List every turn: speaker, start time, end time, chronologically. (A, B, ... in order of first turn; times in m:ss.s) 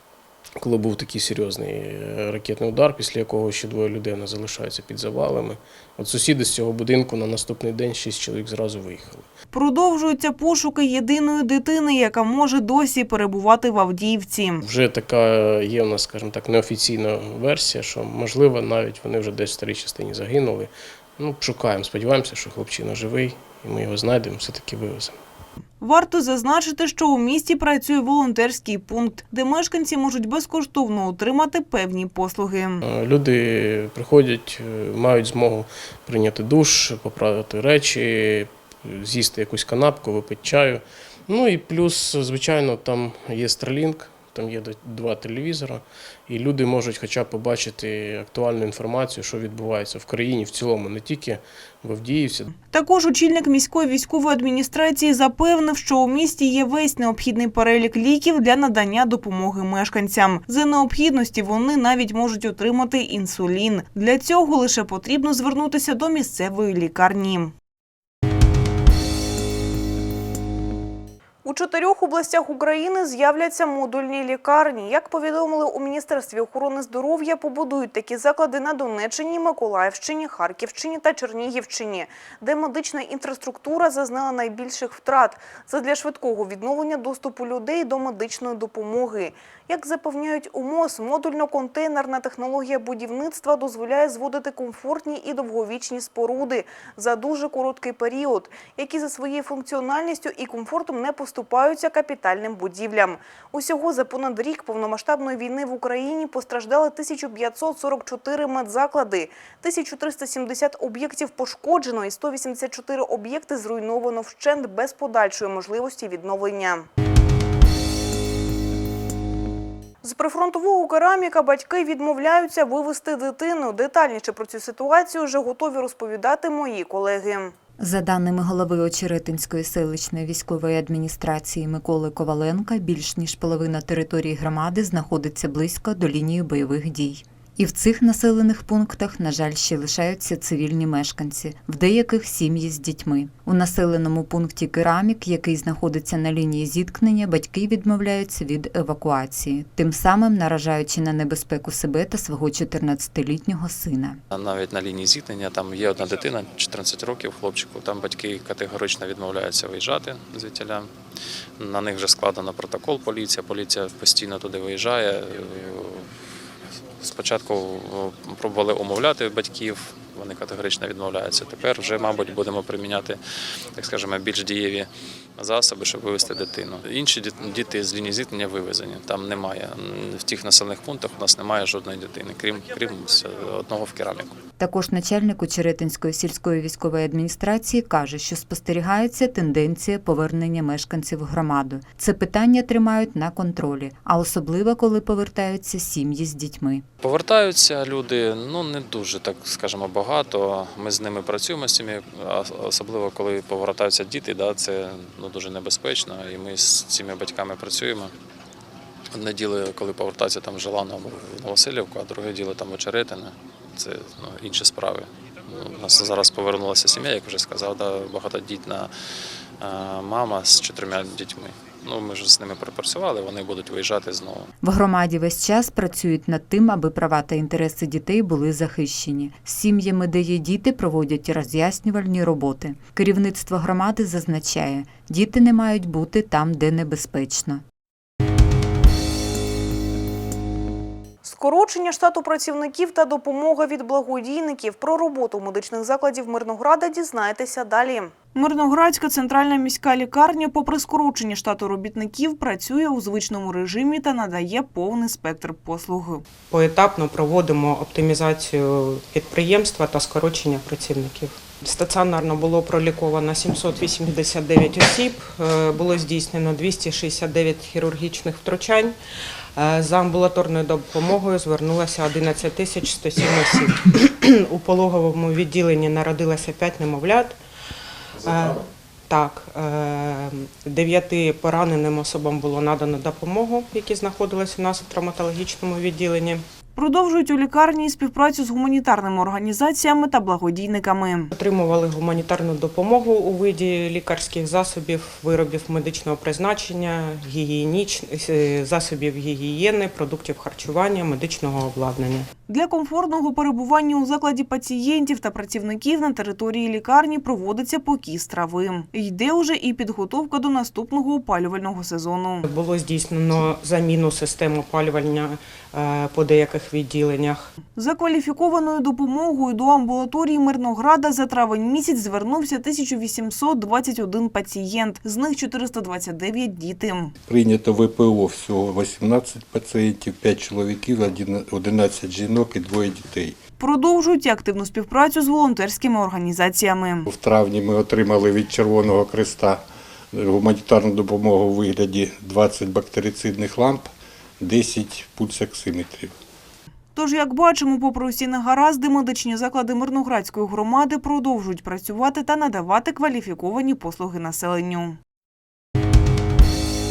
0:00.6-0:09.3 A
0:09.5-0:14.6 B
0:14.6-0:25.1 A
0:25.8-0:32.8 B
0:32.8-0:52.5 A
0:52.7-1:07.5 B
1:11.4-1:56.8 B
2:00.0-2:07.5 B
2:07.8-2:34.2 C
2:34.3-2:40.9 D
2:41.6-2:46.3 D
2:47.0-2:53.2 D
2:53.7-3:04.4 D
3:04.6-3:16.8 C
3:17.0-3:28.1 D
3:29.1-3:38.9 D
3:39.6-3:44.5 D
3:44.6-3:57.6 C
4:01.2-4:16.2 B
4:16.5-4:29.0 E
4:29.6-4:37.4 E
4:38.2-4:46.4 E
4:46.8-4:51.3 B
4:51.3-5:02.3 E
5:02.5-5:12.4 B
5:12.4-5:17.5 E
5:17.8-5:27.1 B
5:27.2-5:33.4 F
5:33.6-5:37.0 B
5:37.0-5:46.1 F
5:46.9-5:55.0 B